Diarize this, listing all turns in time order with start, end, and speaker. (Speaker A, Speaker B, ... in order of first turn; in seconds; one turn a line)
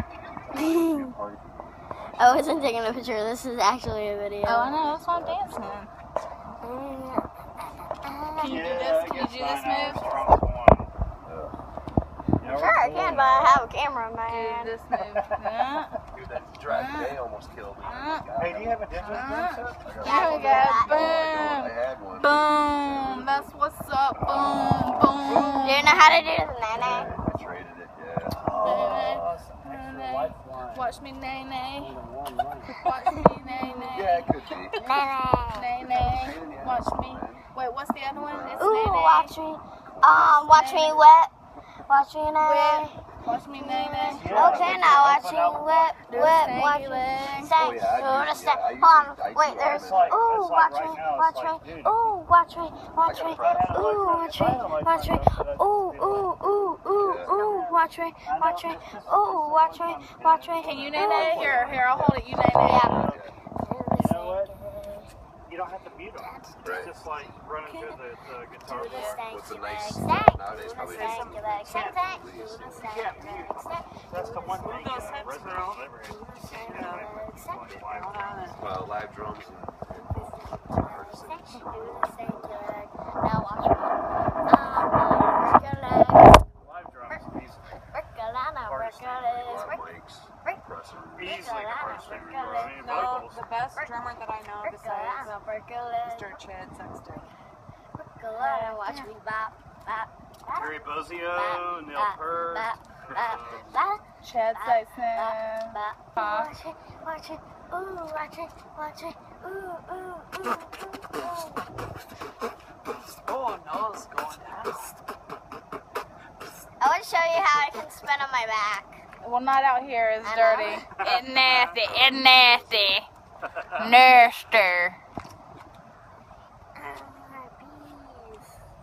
Speaker A: 0.5-1.8
Speaker B: 0.5-1.1
Speaker B: 2.2-4.8
Speaker C: 4.4-5.9
Speaker A: 4.7-5.8
Speaker B: 6.6-7.3
Speaker B: 7.9-8.8
Speaker C: 8.4-10.4
Speaker D: 8.4-10.9
Speaker A: 11.2-11.6
Speaker D: 12.4-13.7
Speaker B: 12.4-14.7
Speaker C: 14.3-16.0
Speaker D: 15.0-15.8
Speaker A: 16.1-23.5
Speaker C: 16.6-17.2
Speaker C: 17.8-18.3
Speaker D: 18.4-19.9
Speaker C: 19.0-26.3
Speaker B: 20.0-21.2
Speaker A: 24.2-25.5
Speaker B: 25.6-27.1
Speaker A: 26.7-29.2
Speaker D: 26.8-27.5
Speaker D: 28.2-31.0
Speaker C: 28.6-31.9
Speaker D: 31.8-32.8
Speaker C: 32.8-34.4
Speaker B: 33.5-34.0
Speaker A: 33.8-34.8
Speaker B: 34.8-35.7
Speaker C: 35.5-39.3
Speaker A: 35.8-37.4
Speaker A: 38.1-38.8
Speaker B: 38.6-43.0
Speaker A: 40.0-40.2
Speaker C: 40.2-41.1
Speaker C: 42.4-44.9
Speaker B: 43.5-61.8
Speaker D: 44.1-46.2
Speaker A: 44.1-45.1
Speaker C: 46.0-47.5
Speaker A: 47.6-50.2
Speaker D: 49.6-52.2
Speaker A: 53.0-53.9
Speaker D: 53.2-61.4
Speaker A: 57.0-57.4
Speaker C: 60.6-63.0
Speaker A: 60.7-63.3
Speaker B: 62.6-65.1
Speaker D: 62.9-63.3
Speaker D: 63.9-64.5
Speaker D: 65.5-69.2
Speaker B: 66.0-66.9
Speaker A: 66.6-66.9
Speaker B: 67.6-68.0
Speaker B: 68.6-75.3
Speaker C: 68.8-69.2
Speaker A: 69.0-73.2
Speaker E: 70.8-71.4
Speaker D: 71.5-72.1
Speaker D: 72.8-78.5
Speaker E: 74.6-78.7
Speaker B: 76.0-77.8
Speaker A: 78.5-82.5
Speaker B: 80.1-87.2
Speaker D: 86.6-87.8
Speaker B: 87.8-89.8
Speaker D: 88.7-89.7
Speaker A: 89.3-91.5
Speaker D: 91.2-93.5
Speaker B: 91.2-93.0
Speaker E: 92.2-95.3
Speaker B: 94.6-96.4
Speaker E: 96.0-97.3
Speaker B: 98.0-111.7
Speaker C: 98.4-99.1
Speaker D: 100.5-103.8
Speaker C: 104.2-106.5
Speaker E: 113.1-115.0
Speaker B: 116.8-119.0
Speaker C: 119.2-123.1
Speaker B: 120.2-120.9
Speaker D: 121.1-121.6
Speaker A: 121.9-122.6
Speaker D: 123.5-123.9
Speaker C: 123.7-125.0
Speaker B: 126.7-128.5